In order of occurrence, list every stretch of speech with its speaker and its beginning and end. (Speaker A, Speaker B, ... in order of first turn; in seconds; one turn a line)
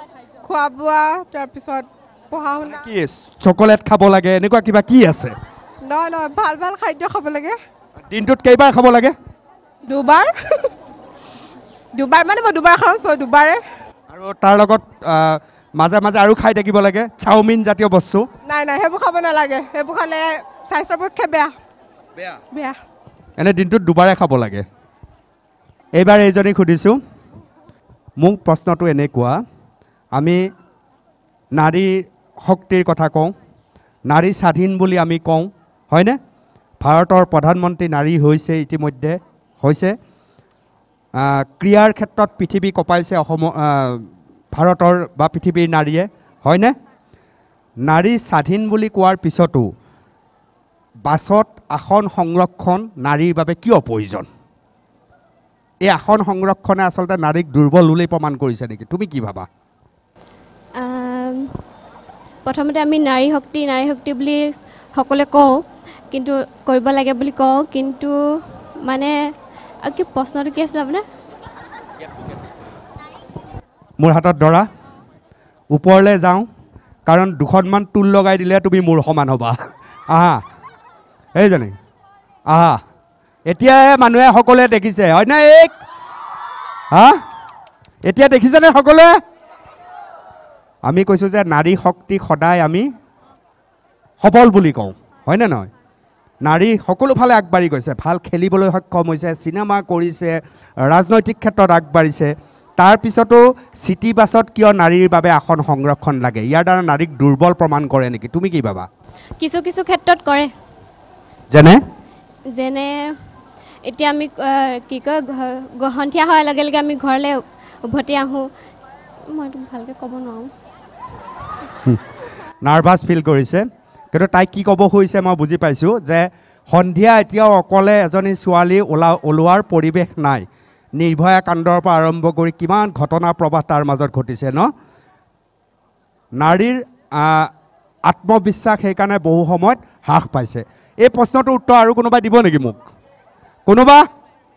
Speaker A: 0.4-2.9
Speaker B: 2.6-5.3
Speaker A: 5.8-7.5
Speaker B: 8.1-9.1
Speaker A: 9.9-10.3
Speaker A: 11.9-13.6
Speaker B: 14.1-18.2
Speaker A: 18.4-21.5
Speaker A: 22.5-22.8
Speaker B: 23.4-24.6
Speaker B: 25.9-27.0
Speaker B: 28.2-29.4
Speaker B: 30.1-30.4
Speaker B: 31.5-33.3
Speaker B: 34.1-36.2
Speaker B: 36.8-40.0
Speaker B: 41.2-46.7
Speaker B: 47.8-49.7
Speaker B: 51.0-54.3
Speaker B: 55.8-59.5
Speaker C: 60.8-61.5
Speaker C: 62.5-65.6
Speaker C: 66.1-68.1
Speaker C: 68.8-69.1
Speaker C: 69.8-71.0
Speaker B: 74.0-74.6
Speaker B: 75.7-76.5
Speaker B: 77.1-79.6
Speaker B: 80.1-80.4
Speaker B: 81.3-81.8
Speaker B: 82.5-82.8
Speaker B: 83.5-85.7
Speaker B: 86.9-87.2
Speaker B: 88.0-89.1
Speaker B: 90.8-92.8
Speaker B: 94.2-95.7
Speaker B: 96.4-108.9
Speaker C: 109.4-110.5
Speaker B: 111.5-111.8
Speaker C: 112.5-113.1
Speaker C: 113.9-118.5
Speaker C: 119.3-120.5
Speaker B: 122.6-134.7
Speaker B: 136.3-137.5
Speaker B: 138.1-142.8
Speaker B: 143.7-144.0